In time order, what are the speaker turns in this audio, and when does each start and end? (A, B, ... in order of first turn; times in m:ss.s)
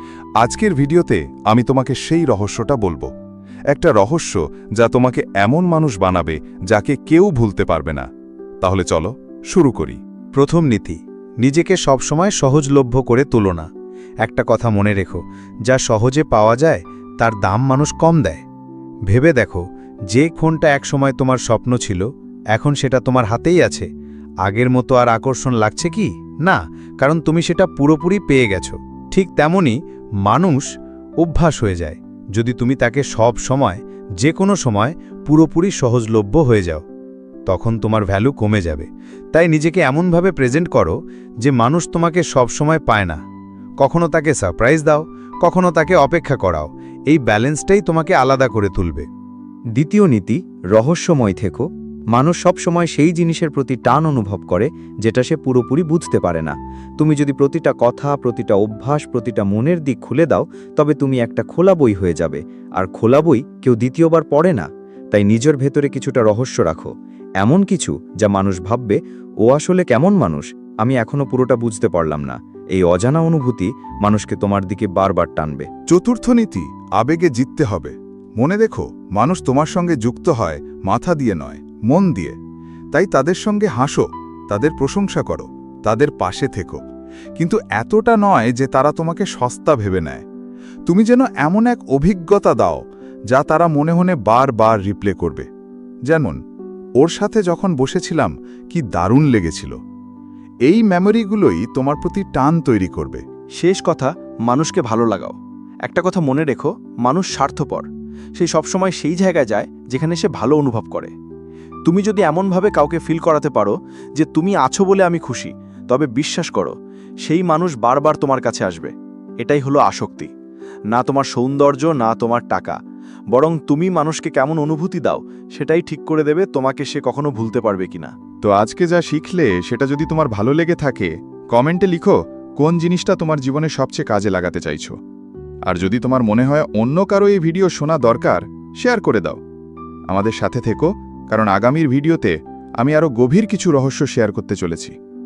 0:00.4-0:03.1 A
0:03.7-0:08.0 A
0:08.6-0:10.0 A
0:10.3-0:13.7 B
0:14.2-0:18.4 B
0:19.1-0:23.9 B
0:24.4-0:36.8 B
0:37.5-0:43.2 B
0:43.8-0:49.1 B
0:49.7-1:15.7 C
1:15.9-1:22.3 A
1:22.9-1:26.8 A
1:27.4-1:30.2 A
1:30.9-1:35.5 A
1:36.1-1:36.4 A
1:37.0-1:39.8 A
1:40.7-1:43.2 A
1:43.6-1:51.1 D
1:51.8-2:00.3 D
2:00.9-2:02.8 D
2:03.3-2:08.1 D
2:08.4-2:15.0 A
2:15.6-2:19.4 A
2:20.1-2:24.9 A